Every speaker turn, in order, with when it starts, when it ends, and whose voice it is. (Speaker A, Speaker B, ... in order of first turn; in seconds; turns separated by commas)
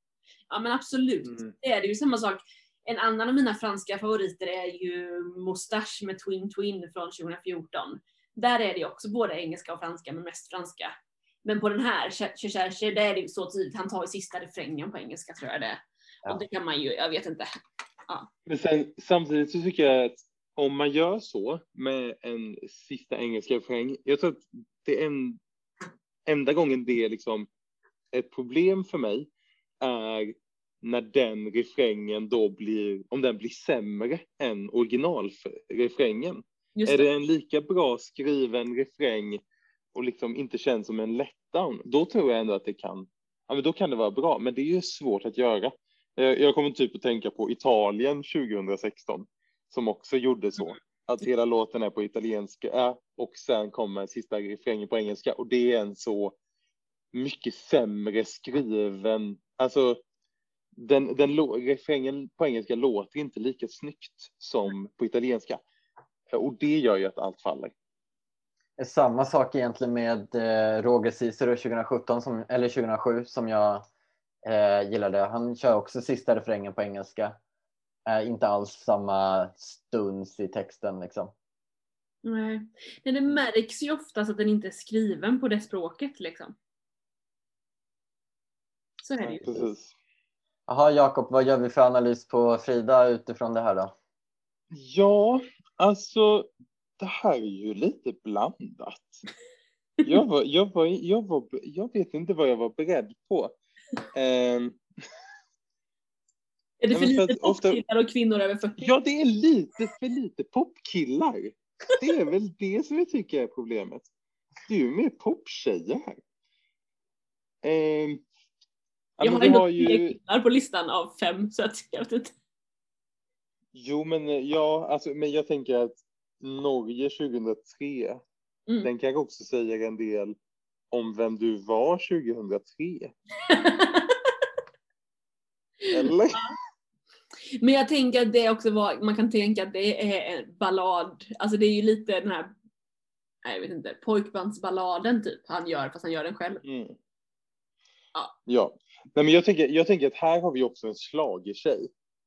Speaker A: 0.5-17.5, Speaker B: 18.5-25.4, Speaker B: 26.3-27.5, Speaker B: 28.1-29.3, Speaker B: 29.8-39.4, Speaker A: 36.8-37.1, Speaker B: 40.0-56.4, Speaker B: 57.1-60.0, Speaker B: 60.8-65.6, Speaker B: 66.3-67.7, Speaker C: 68.8-73.8, Speaker C: 74.5-77.4, Speaker C: 78.1-81.3, Speaker A: 82.2-86.5, Speaker A: 89.0-89.5, Speaker C: 89.2-89.7, Speaker B: 89.4-89.9, Speaker C: 90.7-93.9, Speaker B: 94.7-99.2, Speaker B: 100.0-103.5, Speaker B: 104.1-104.8, Speaker A: 106.8-108.9, Speaker B: 106.9-107.8, Speaker B: 108.8-114.1, Speaker B: 114.7-116.2, Speaker B: 117.6-118.2, Speaker B: 119.2-120.2, Speaker A: 119.2-122.3, Speaker B: 123.7-128.2, Speaker B: 128.8-130.4, Speaker B: 130.9-133.1, Speaker A: 133.5-134.2, Speaker A: 135.9-136.5, Speaker B: 135.9-136.4, Speaker A: 137.6-142.6, Speaker A: 143.4-146.6, Speaker B: 146.6-147.0, Speaker B: 148.5-151.9